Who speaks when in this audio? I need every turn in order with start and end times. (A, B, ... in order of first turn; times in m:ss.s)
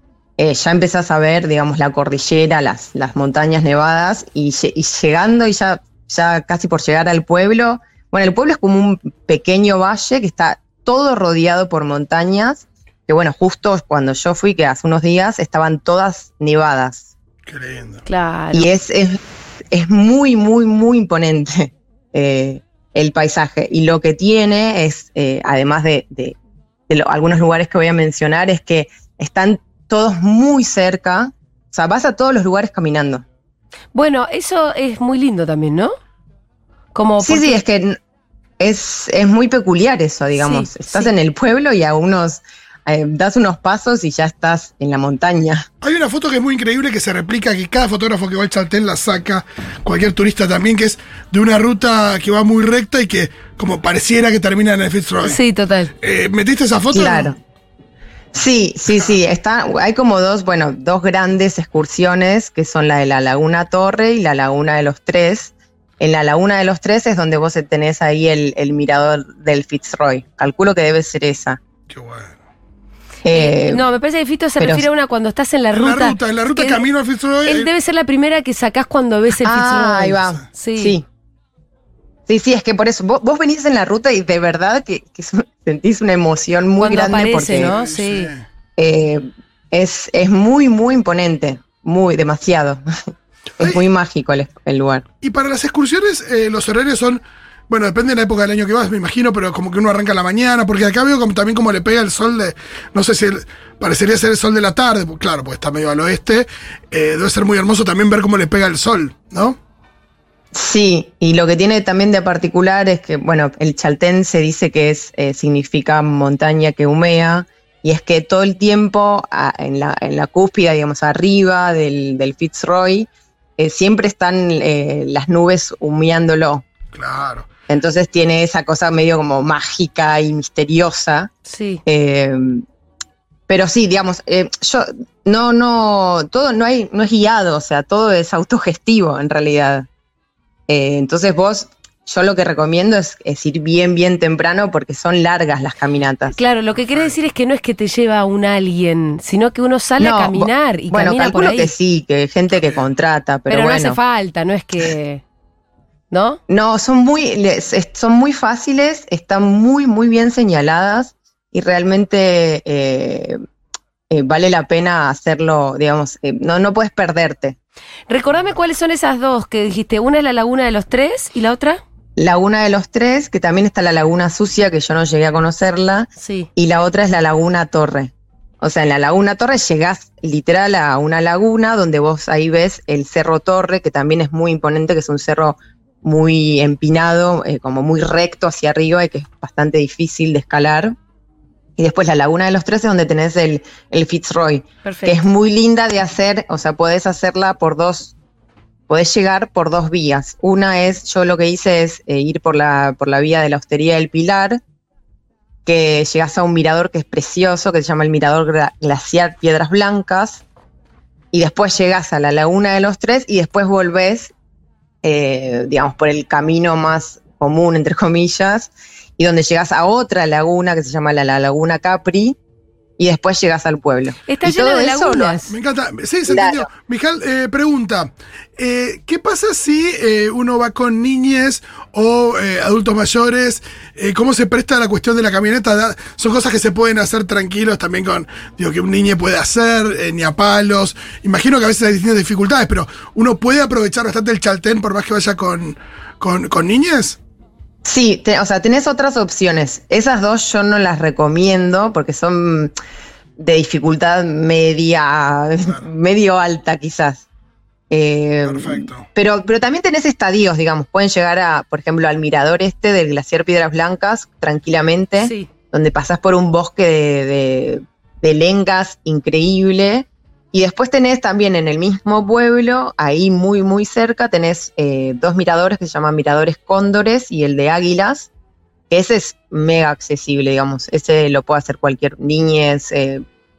0:00.4-0:17.1 A
0:17.5-0:18.0 B
0:18.0-0:18.7 C
0:18.5-0:19.2 A
0:19.7-0:26.4 A
0:26.9-0:33.2 A
0:33.9-0:35.9 C
0:36.9-0:37.6 C
0:37.2-0:38.0 A
0:38.6-0:45.7 A
0:40.4-0:41.1 C
0:45.8-0:55.4 B
0:55.2-0:55.9 C
0:56.0-0:57.3 B
0:56.9-0:57.4 A
0:58.3-1:11.6 A
1:11.9-1:12.4 B
1:13.2-1:13.9 A
1:13.3-1:16.8 C
1:14.6-1:14.9 A
1:15.7-1:17.7 B
1:17.4-1:21.0 C
1:19.4-1:21.1 A
1:22.3-1:27.8 A
1:26.8-1:28.3 C
1:27.6-1:28.5 B
1:28.8-1:32.8 A
1:33.6-1:35.0 A
1:35.2-1:49.6 B
1:50.5-2:06.6 A
2:06.9-2:07.5 B
2:07.7-2:11.3 A
2:11.5-2:11.8 C
2:11.9-2:12.6 A
2:13.5-2:19.9 A
2:20.7-2:26.4 A
2:26.3-2:31.7 C
2:26.9-2:27.2 B
2:30.0-2:34.0 A
2:32.5-2:32.9 B
2:33.5-2:35.2 C
2:36.1-2:36.4 C
2:36.5-2:43.4 A
2:44.1-2:47.6 A
2:48.1-2:51.8 C
2:52.2-3:11.0 A
2:56.2-2:56.5 C
3:11.8-3:18.2 A
3:14.8-3:15.2 C
3:18.9-3:24.6 A
3:25.7-3:30.4 A
3:31.3-3:34.3 A
3:35.0-3:42.4 A
3:43.0-3:45.4 A
3:44.3-3:45.6 C
3:45.5-4:07.2 B
3:46.3-3:46.7 A
4:07.8-4:12.7 A
4:13.4-4:17.2 A
4:17.9-4:38.3 A
4:18.4-4:19.0 B
4:25.2-4:25.5 C
4:38.9-4:43.2 A